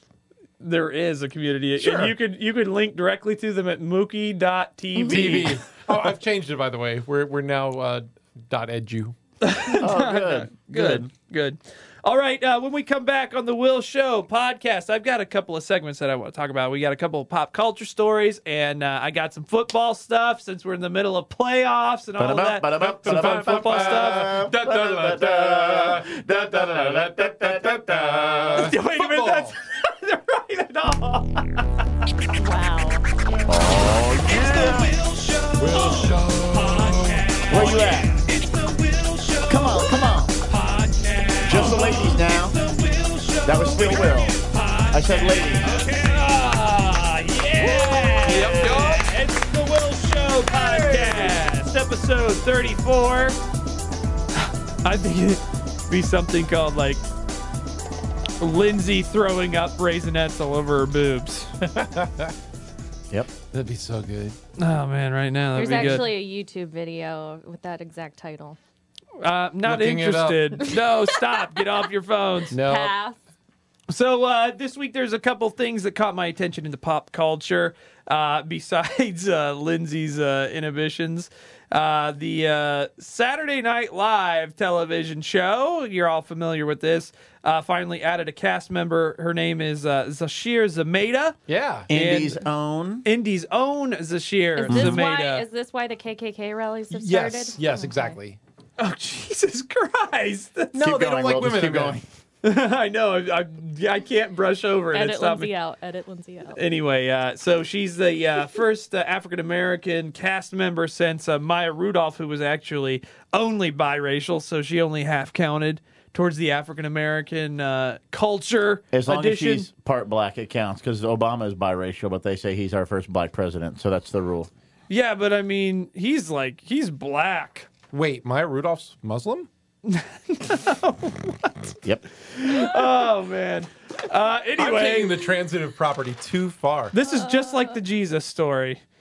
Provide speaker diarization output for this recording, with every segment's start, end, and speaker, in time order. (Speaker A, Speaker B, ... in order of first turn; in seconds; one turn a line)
Speaker A: 0.6-5.6
Speaker B: 1.8-2.1
Speaker C: 5.0-5.5
Speaker B: 5.1-9.2
Speaker A: 9.4-24.3
Speaker D: 9.8-11.1
Speaker D: 22.2-28.7
Speaker B: 22.8-29.5
Speaker A: 28.5-31.6
Speaker C: 32.4-33.1
Speaker D: 33.5-34.9
Speaker A: 34.2-53.4
Speaker B: 34.3-34.9
Speaker B: 35.6-37.6
Speaker D: 37.5-38.1
Speaker D: 39.5-40.4
Speaker D: 41.5-42.6
Speaker B: 41.6-41.9
Speaker D: 43.5-44.4
Speaker D: 44.9-45.7
Speaker B: 45.6-46.0
Speaker B: 47.6-49.1
Speaker B: 50.5-51.4
Speaker A: 54.4-57.0
Speaker A: 58.4-61.5
Speaker B: 61.6-62.3
Speaker B: 63.5-64.4
Speaker A: 64.6-66.1
Speaker C: 65.5-68.6
Speaker A: 69.2-72.5
Speaker B: 69.7-70.5
Speaker C: 70.6-71.6
Speaker C: 72.5-73.2
Speaker B: 72.5-72.9
Speaker A: 73.9-91.4
Speaker B: 91.5-91.9
Speaker D: 91.9-93.0
Speaker A: 91.9-92.4
Speaker A: 93.0-95.5
Speaker C: 94.6-98.2
Speaker D: 94.7-95.0
Speaker B: 96.9-98.4
Speaker A: 98.8-100.8
Speaker B: 100.8-102.0
Speaker D: 100.8-102.0
Speaker A: 102.4-105.5
Speaker C: 104.9-106.6
Speaker A: 106.5-119.7
Speaker D: 118.9-124.5
Speaker A: 124.9-127.7
Speaker B: 127.9-129.5
Speaker A: 129.9-131.7
Speaker A: 132.3-135.3
Speaker B: 134.6-136.9
Speaker A: 136.9-138.8
Speaker C: 137.0-137.8